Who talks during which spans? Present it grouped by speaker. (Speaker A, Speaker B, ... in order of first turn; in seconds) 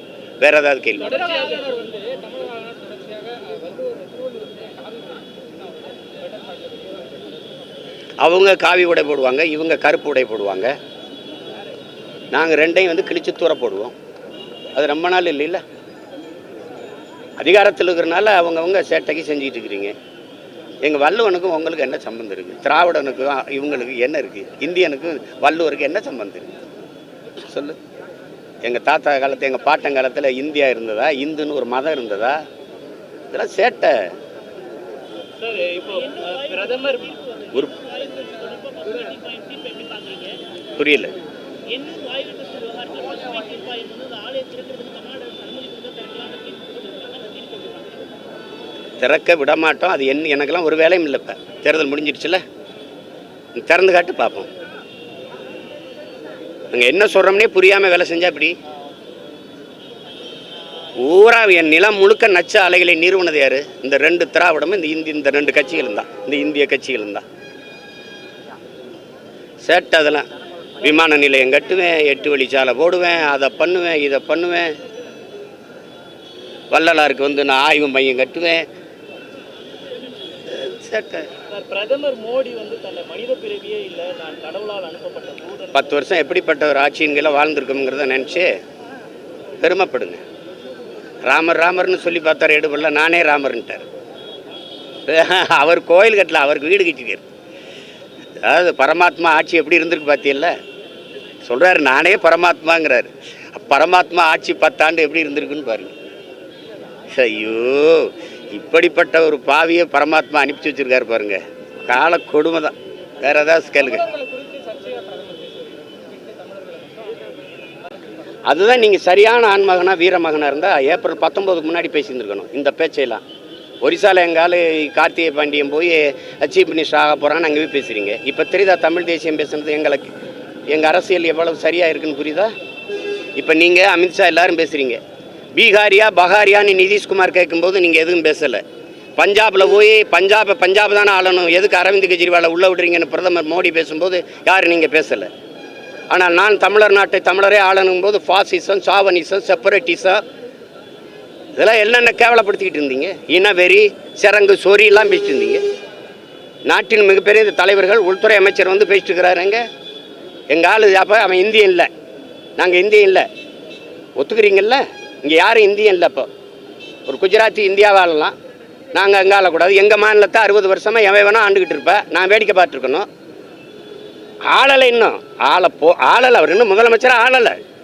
Speaker A: 0.4-1.3, 8.2-10.7, 12.3-13.9, 14.7-15.6, 17.4-19.9, 20.8-26.5, 27.4-27.8, 28.6-32.4, 33.3-34.1, 40.8-41.1, 49.0-52.4, 53.5-54.5, 56.7-58.5, 61.0-67.2, 69.6-70.3, 70.8-74.7, 76.7-78.6, 80.5-81.3, 85.7-88.5, 89.6-90.2, 91.2-93.9, 95.0-97.2, 98.4-100.5, 101.5-105.9, 107.1-114.1, 118.5-123.2, 123.8-130.1, 130.7-132.5, 133.4-135.0, 135.5-138.6, 139.2-145.3, 146.1-150.2, 151.6-155.6, 156.7-159.6, 160.5-161.9, 162.6-163.3, 164.2-166.3, 167.1-168.3, 168.9-173.1, 174.5-177.6
Speaker B: 1.2-5.2, 6.3-6.8, 35.4-40.4, 41.7-48.1, 81.5-85.9, 114.1-117.0